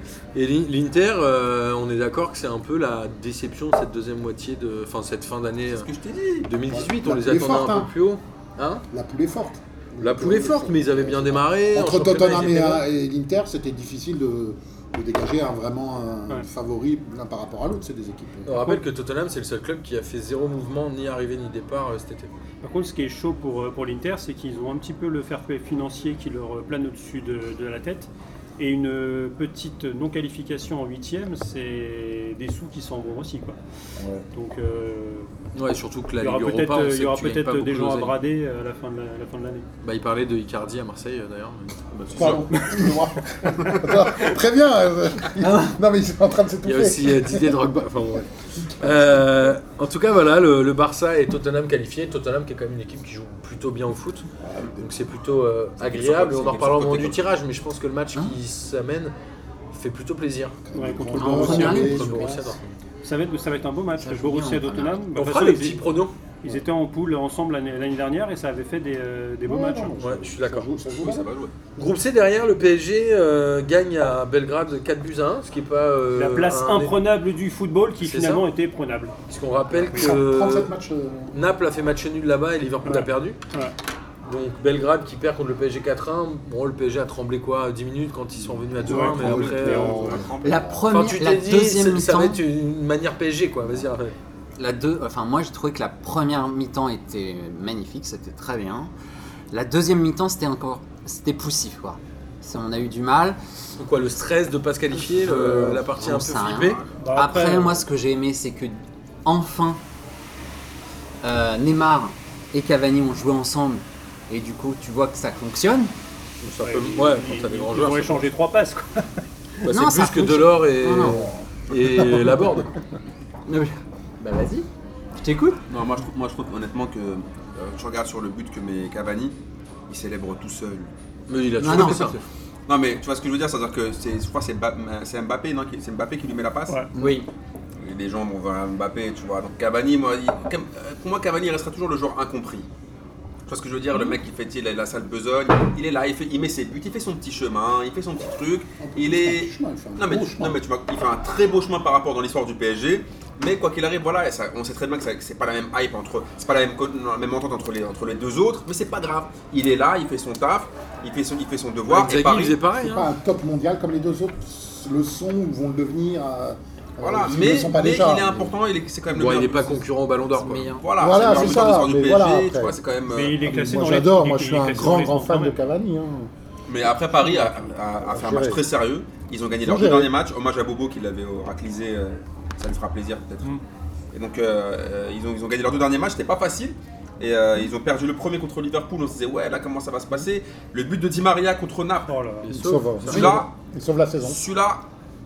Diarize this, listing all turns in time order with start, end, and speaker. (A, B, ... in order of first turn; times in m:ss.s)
0:00.3-0:05.9 A
0:05.7-0:06.5 B
0:06.4-0:08.8 A
0:06.7-0:07.9 C
0:08.9-0:18.8 C
0:10.0-0:12.8 A
0:18.4-0:22.3 A
0:22.6-0:33.6 D
0:34.0-0:34.2 C
0:34.3-0:35.3 D
0:35.5-0:38.1 A
0:36.2-0:39.6 D
0:39.8-0:42.4 A
0:41.9-0:44.2 B
0:42.1-0:49.4 C
0:45.4-0:45.8 E
0:46.6-0:54.3 A
0:54.4-0:55.0 C
0:54.8-0:59.1 A
0:55.8-0:57.2 B
0:59.7-1:00.6 A
1:00.6-1:02.7 C
1:00.7-1:01.9 D
1:01.2-1:02.3 E
1:01.2-1:02.6 A
1:03.0-1:05.9 D
1:04.0-1:05.0 E
1:05.1-1:06.1 A
1:06.4-1:09.9 D
1:09.4-1:11.3 C
1:10.0-1:11.0 A
1:11.0-1:11.5 B
1:11.8-1:16.9 A
1:16.1-1:19.1 D
1:18.0-1:18.4 A
1:19.3-1:20.7 A
1:19.7-1:21.4 C
1:21.3-1:23.4 A
1:22.8-1:23.7 D
1:24.2-1:30.2 A
1:28.7-1:30.9 C
1:28.8-1:30.2 D
1:28.9-1:30.7 B
1:30.4-1:32.4 E
1:30.8-1:34.1 A
1:34.6-1:38.9 E
1:39.5-1:43.4 E
1:43.8-1:46.8 A
1:45.1-1:45.8 C
1:45.6-1:49.8 E
1:47.0-1:47.8 D
1:51.2-1:55.9 E
1:56.4-1:58.3 A
1:56.6-1:59.1 D
1:59.6-2:02.7 A
1:59.7-2:01.3 E
2:01.0-2:01.3 C
2:03.5-2:05.6 E
2:05.7-2:09.4 B
2:09.9-2:10.9 B
2:11.3-2:12.2 A
2:11.6-2:12.2 E
2:11.7-2:12.0 B
2:12.7-2:16.8 B
2:16.9-2:17.3 E
2:17.8-2:22.7 B
2:23.4-2:42.6 B
2:28.8-2:30.6 C
2:41.9-2:43.1 A
2:42.7-2:48.6 C
2:47.0-2:49.8 B
2:49.1-2:50.8 A
2:50.3-2:50.8 E
2:50.8-2:53.4 B
2:51.0-2:52.8 C
2:53.1-2:55.5 D
2:53.4-2:56.3 C
2:56.7-3:03.5 B
2:56.8-2:58.6 C
2:59.6-3:00.1 C
3:04.1-3:12.1 B
3:12.1-3:12.5 D
3:12.4-3:13.4 A
3:12.5-3:14.4 C
3:13.0-3:13.5 B
3:14.2-3:14.9 B